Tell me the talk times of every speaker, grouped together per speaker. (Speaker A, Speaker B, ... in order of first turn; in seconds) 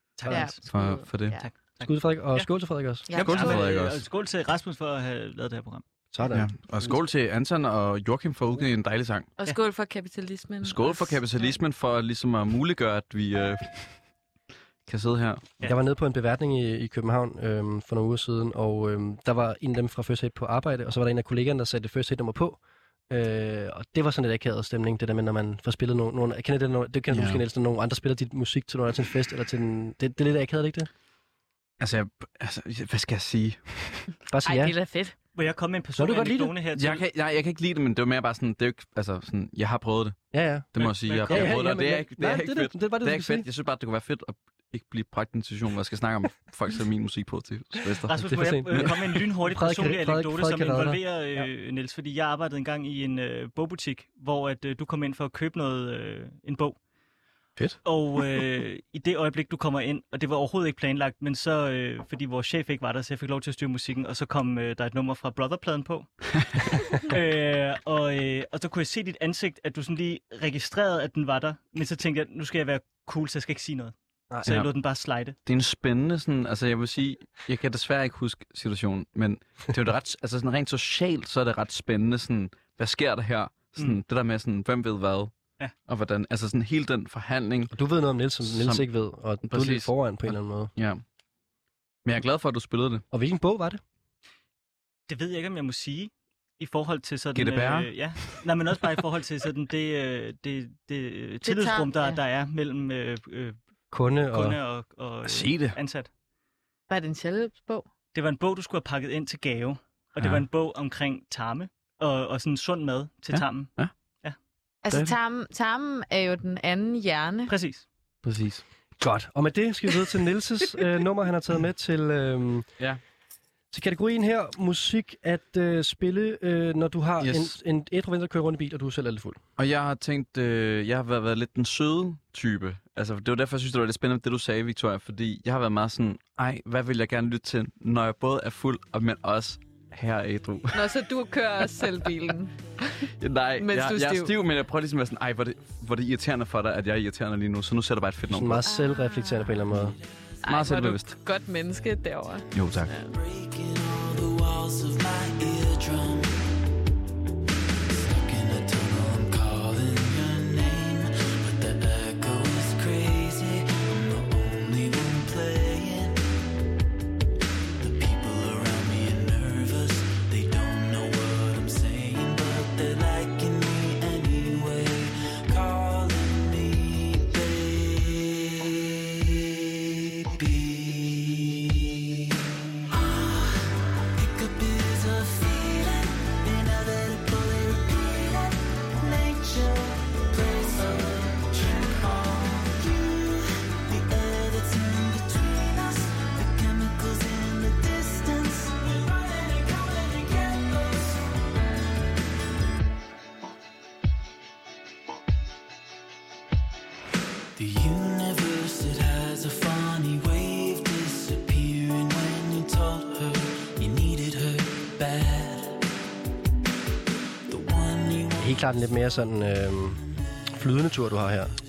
Speaker A: 0.2-0.6, 1.4-2.5, 3.1-5.8, 35.3-37.0, 40.8-41.7, 48.1-56.8, 57.8-66.2, 67.0-75.3, 95.1-103.5, 104.3-106.1, 108.1-114.3, 117.5-117.8
Speaker B: 0.3-1.5, 3.1-3.6, 9.4-11.2, 34.4-35.1, 101.4-102.2, 106.9-107.9, 114.8-117.5, 140.7-143.1, 143.6-144.3, 148.6-149.7, 150.4-153.2
Speaker C: 0.7-1.4, 3.1-4.0, 6.3-9.3, 10.6-14.0, 14.8-15.5, 27.1-27.4, 31.8-34.1, 36.7-40.2, 40.7-49.2, 75.4-85.3, 85.9-87.7, 88.4-88.8, 89.4-91.0, 92.0-93.0, 97.3-98.0, 105.2-105.8, 110.2-110.4, 113.3-113.9, 114.9-115.1, 118.2-118.6, 127.2-127.5, 129.6-140.9, 143.2-148.6, 150.4-151.2, 152.5-152.9
Speaker D: 1.8-3.1, 6.1-6.5, 15.6-30.9, 34.3-34.7, 36.0-36.5, 40.3-43.5, 48.1-51.5, 87.7-90.7, 93.1-93.8, 103.9-104.6, 119.0-122.7, 123.7-129.4, 148.3-149.9, 218.4-220.0, 220.5-221.5
Speaker E: 153.1-156.4, 157.9-166.2, 167.8-182.3, 182.9-201.3, 207.6-215.8, 217.5-218.7